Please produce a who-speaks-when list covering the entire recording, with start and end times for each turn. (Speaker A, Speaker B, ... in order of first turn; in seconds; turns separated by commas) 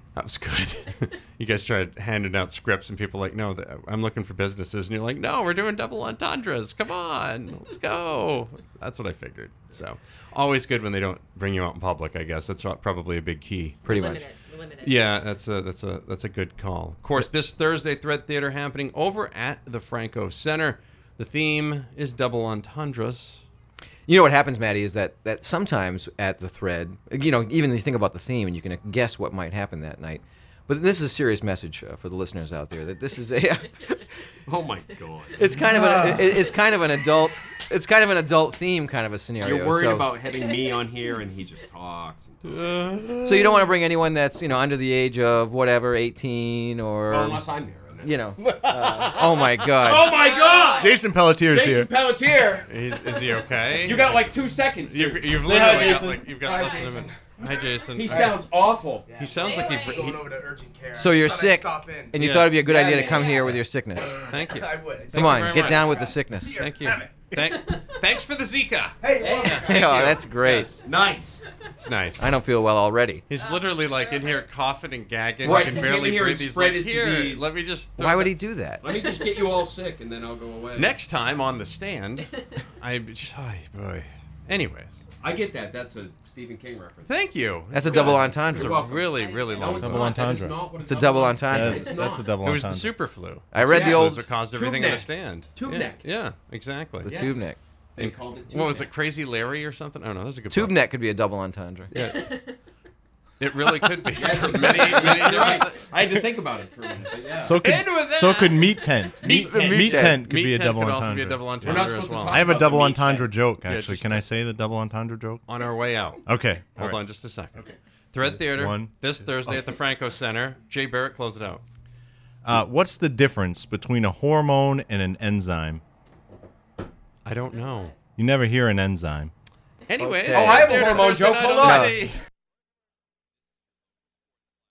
Speaker A: 0.2-14.2, Speaker B: 13.8-14.2, Speaker C: 13.9-15.2, Speaker A: 14.8-23.4, Speaker B: 24.1-34.0, Speaker D: 34.5-35.5, Speaker B: 35.4-40.1, Speaker E: 35.6-36.3, Speaker D: 39.4-42.6, Speaker A: 42.5-43.7, Speaker B: 43.2-47.5, Speaker D: 47.1-48.2, Speaker B: 48.0-50.1, Speaker E: 48.5-49.5, Speaker D: 49.8-57.3, Speaker C: 50.1-51.0, Speaker E: 50.8-51.9, Speaker A: 52.7-58.4, Speaker E: 55.4-56.3, Speaker D: 57.9-59.2, Speaker A: 59.2-60.3, Speaker C: 59.4-60.1, Speaker F: 60.4-62.1, Speaker B: 60.9-64.2, Speaker A: 62.1-62.6, Speaker D: 62.8-63.4, Speaker F: 64.2-65.2, Speaker A: 64.2-70.8, Speaker B: 65.1-66.6, Speaker F: 66.5-67.1, Speaker F: 69.0-69.5, Speaker D: 69.1-71.4, Speaker B: 69.6-70.8, Speaker A: 71.8-72.3, Speaker B: 72.2-73.2, Speaker A: 73.3-78.4, Speaker C: 73.4-74.5, Speaker D: 75.4-77.5, Speaker B: 75.4-75.7, Speaker B: 78.0-78.9, Speaker D: 78.8-81.0, Speaker A: 80.8-85.0, Speaker D: 85.2-87.2, Speaker A: 87.0-90.5, Speaker B: 87.7-88.8, Speaker D: 87.8-92.4, Speaker C: 89.1-89.8, Speaker E: 89.7-90.6, Speaker B: 90.8-91.9, Speaker E: 91.4-92.9, Speaker A: 92.4-97.2, Speaker B: 93.5-94.3, Speaker D: 93.6-96.1, Speaker D: 97.0-97.4, Speaker B: 97.0-97.6, Speaker D: 98.0-98.9, Speaker A: 98.0-100.8, Speaker B: 100.5-101.9, Speaker A: 101.9-102.5, Speaker C: 102.2-102.5, Speaker A: 103.4-105.9, Speaker D: 104.1-107.6, Speaker E: 107.3-115.4, Speaker A: 107.6-112.6, Speaker B: 109.2-110.2, Speaker D: 109.4-109.7, Speaker D: 111.6-113.3, Speaker A: 113.6-114.3, Speaker A: 115.5-121.6, Speaker E: 116.3-117.0, Speaker E: 118.2-119.5, Speaker E: 122.5-125.8, Speaker A: 127.2-128.0, Speaker E: 128.2-129.3, Speaker A: 129.9-132.2, Speaker B: 130.0-130.9, Speaker D: 130.3-131.9, Speaker B: 131.6-132.0